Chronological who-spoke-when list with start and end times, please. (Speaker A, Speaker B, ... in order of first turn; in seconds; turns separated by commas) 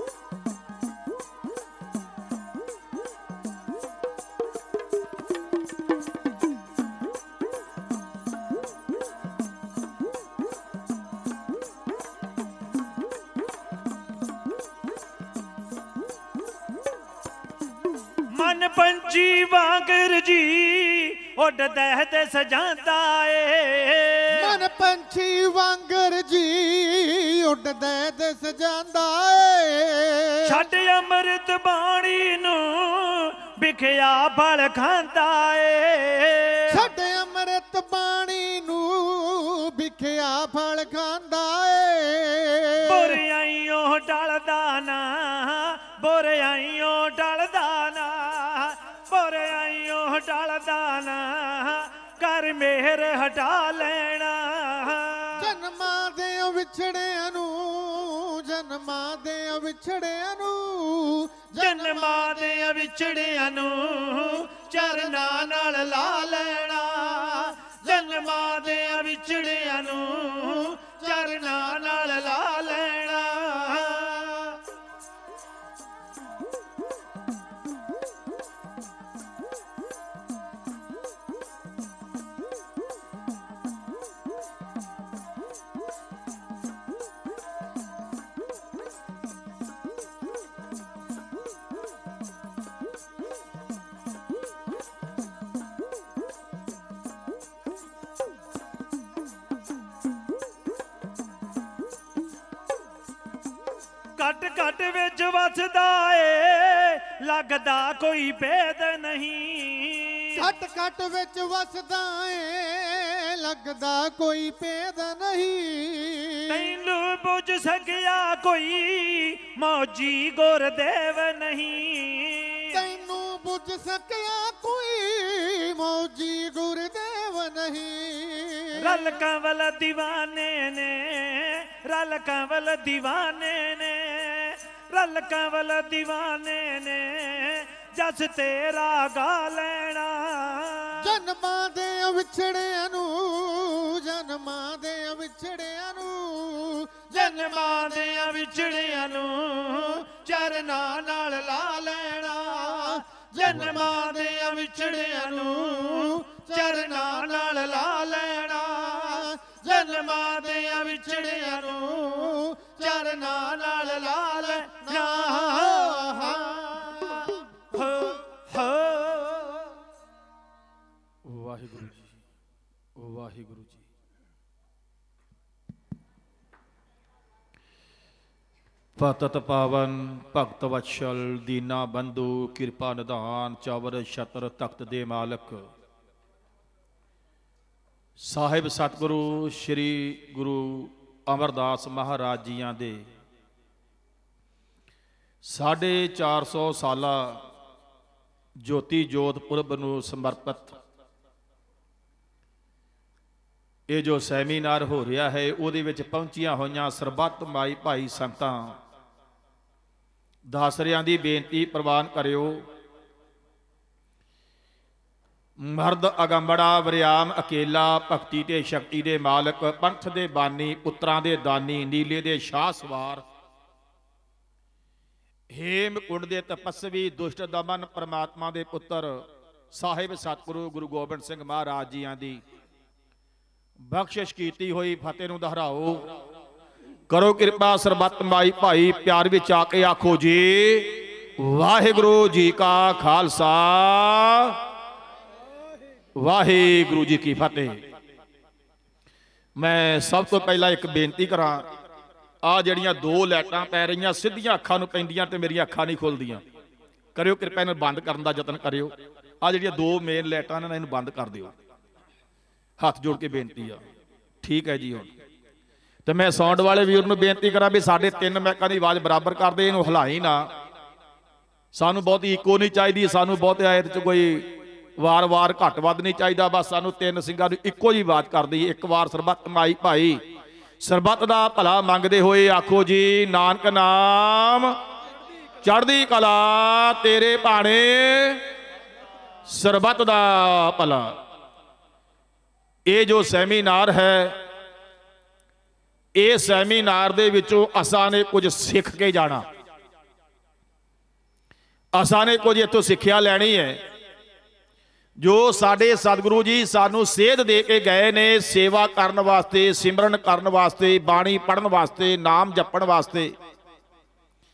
Speaker A: 18.3-24.6, Speaker B: 24.4-30.6, Speaker A: 30.4-36.9, Speaker B: 36.7-43.2, Speaker A: 42.8-55.5, Speaker B: 55.4-62.3, Speaker A: 61.5-74.5, Speaker B: 64.8-65.5, Speaker A: 104.2-110.5, Speaker B: 110.4-116.6, Speaker A: 116.5-122.8, Speaker B: 122.7-128.8, Speaker A: 128.8-141.2, Speaker B: 141.0-148.3, Speaker A: 147.1-162.0, Speaker B: 152.6-154.2, Speaker B: 155.3-157.8, Speaker B: 159.0-167.2, Speaker A: 162.8-166.1, Speaker A: 167.1-169.6, Speaker C: 171.2-172.0, Speaker C: 173.0-173.8, Speaker C: 179.0-185.7, Speaker C: 188.2-193.1, Speaker C: 195.4-197.4, Speaker C: 198.6-200.8, Speaker C: 203.9-208.8, Speaker C: 210.5-212.7, Speaker C: 215.6-223.3, Speaker C: 225.5-232.4, Speaker C: 233.8-236.2, Speaker C: 237.1-244.6, Speaker C: 246.2-247.8, Speaker C: 249.6-251.7, Speaker C: 252.4-256.4, Speaker C: 257.1-261.5, Speaker C: 262.8-263.8, Speaker C: 264.4-265.1, Speaker C: 266.1-270.5, Speaker C: 271.7-280.2, Speaker C: 280.8-284.8, Speaker C: 285.6-288.5, Speaker C: 289.5-291.2, Speaker C: 292.9-294.4, Speaker C: 296.1-299.5, Speaker C: 301.9-303.8, Speaker C: 305.2-313.4